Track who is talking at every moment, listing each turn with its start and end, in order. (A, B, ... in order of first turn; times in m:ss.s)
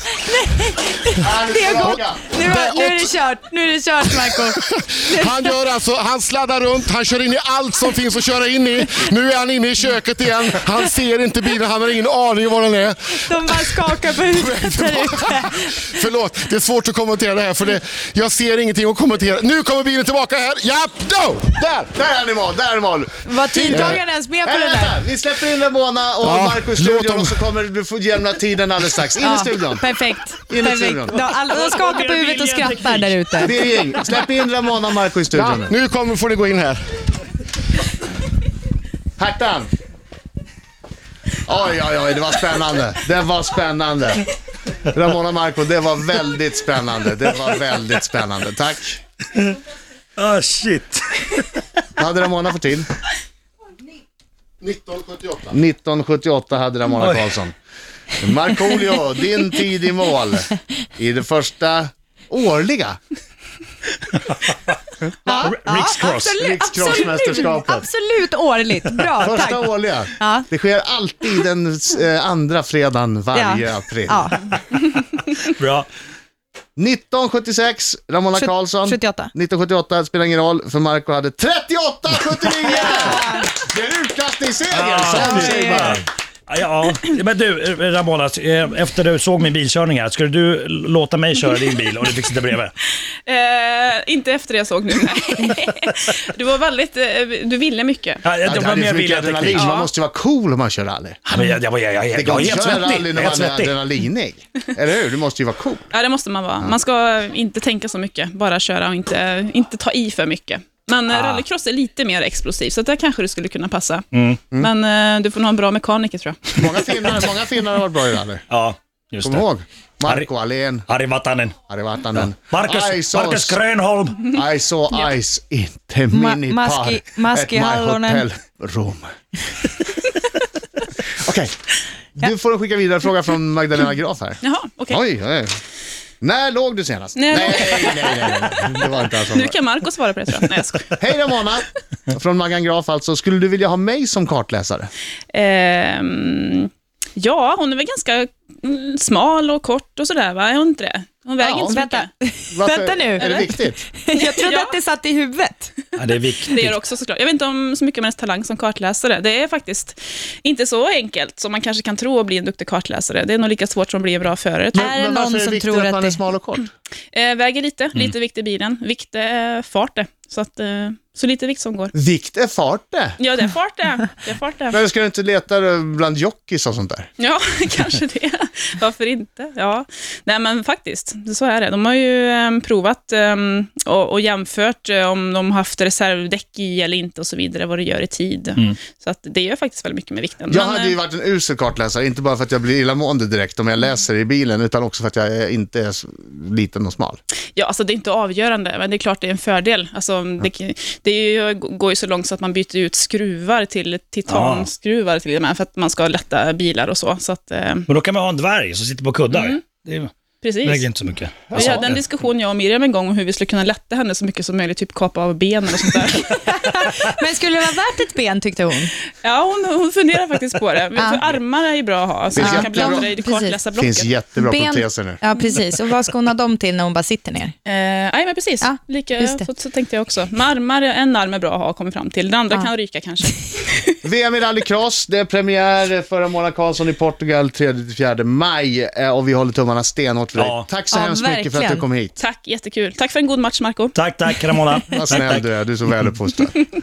0:00.2-0:05.5 A
0:01.2-0:02.3 B
0:01.8-0:03.1 C
0:04.1-0:21.9 C
0:13.2-0:15.7 A
0:21.9-0:31.2 B
0:23.2-0:25.0 A
0:23.7-0:24.0 C
0:26.2-0:27.5 C
0:29.2-0:33.6 A
0:31.2-0:33.7 D
0:33.4-0:35.7 B
0:35.3-0:36.9 C
0:39.2-0:39.7 B
0:41.4-0:44.2 B
0:44.9-0:49.0 B
0:50.2-0:51.6 D
0:52.0-0:52.9 B
0:54.6-0:55.5 C
0:55.5-0:57.5 B
0:57.0-0:57.3 D
0:58.2-1:03.0 B
1:05.2-1:10.5 A
1:05.4-1:06.4 D
1:06.4-1:07.9 B
1:09.2-1:14.3 B
1:13.3-1:14.4 A
1:15.4-1:15.9 D
1:16.8-1:26.0 B
1:18.4-1:19.3 A
1:22.6-1:23.5 A
1:24.7-1:32.7 D
1:25.1-1:26.0 A
1:33.2-1:38.2 E
1:38.2-1:39.7 D
1:38.4-1:41.2 B
1:39.5-1:39.9 E
1:41.3-1:43.8 D
1:42.1-1:45.9 B
1:45.9-1:56.5 E
1:51.1-1:51.4 D
1:54.1-1:54.4 D
1:56.6-1:58.4 B
1:58.5-1:59.4 D
1:59.2-2:00.8 B
2:00.0-2:00.3 D
2:00.9-2:01.6 D
2:01.7-2:03.6 B
2:02.1-2:04.3 D
2:04.3-2:09.1 B
2:06.1-2:08.2 A
2:11.2-2:11.5 B
2:12.1-2:14.4 B
2:14.4-2:15.0 E
2:14.9-2:15.6 B
2:16.2-2:19.5 B
2:17.1-2:18.3 E
2:19.3-2:20.9 E
2:20.9-2:24.9 B
2:25.3-2:32.1 E
2:31.4-2:31.8 B
2:31.6-2:35.7 A
2:32.5-2:33.8 B
2:34.1-2:34.7 E
2:36.0-2:36.8 D
2:36.4-2:44.8 E
2:44.7-2:46.2 A
2:44.7-2:46.7 B
2:47.1-2:51.9 E
2:51.9-2:53.2 B
2:53.2-2:54.8 E
2:54.7-2:57.1 B
2:57.2-3:11.0 E
3:10.5-3:17.2 B
3:17.6-3:27.9 E
3:24.3-3:24.7 D
3:27.9-3:30.1 D
3:29.3-3:29.6 E
3:30.4-3:30.9 E
3:30.6-3:32.0 D
3:31.5-3:36.5 E
3:31.5-3:31.9 B
3:36.5-3:38.9 A
3:39.2-3:44.1 E
3:41.0-3:41.2 A
3:42.4-3:43.1 B
3:42.4-3:43.6 A
3:43.7-3:45.2 B
3:44.4-3:47.5 A
3:47.6-3:53.9 E
3:48.6-3:49.4 A
3:54.0-4:02.1 B
4:00.3-4:00.7 D
4:00.9-4:01.9 A
4:02.2-4:03.9 E
4:03.9-4:05.5 D
4:04.9-4:06.6 B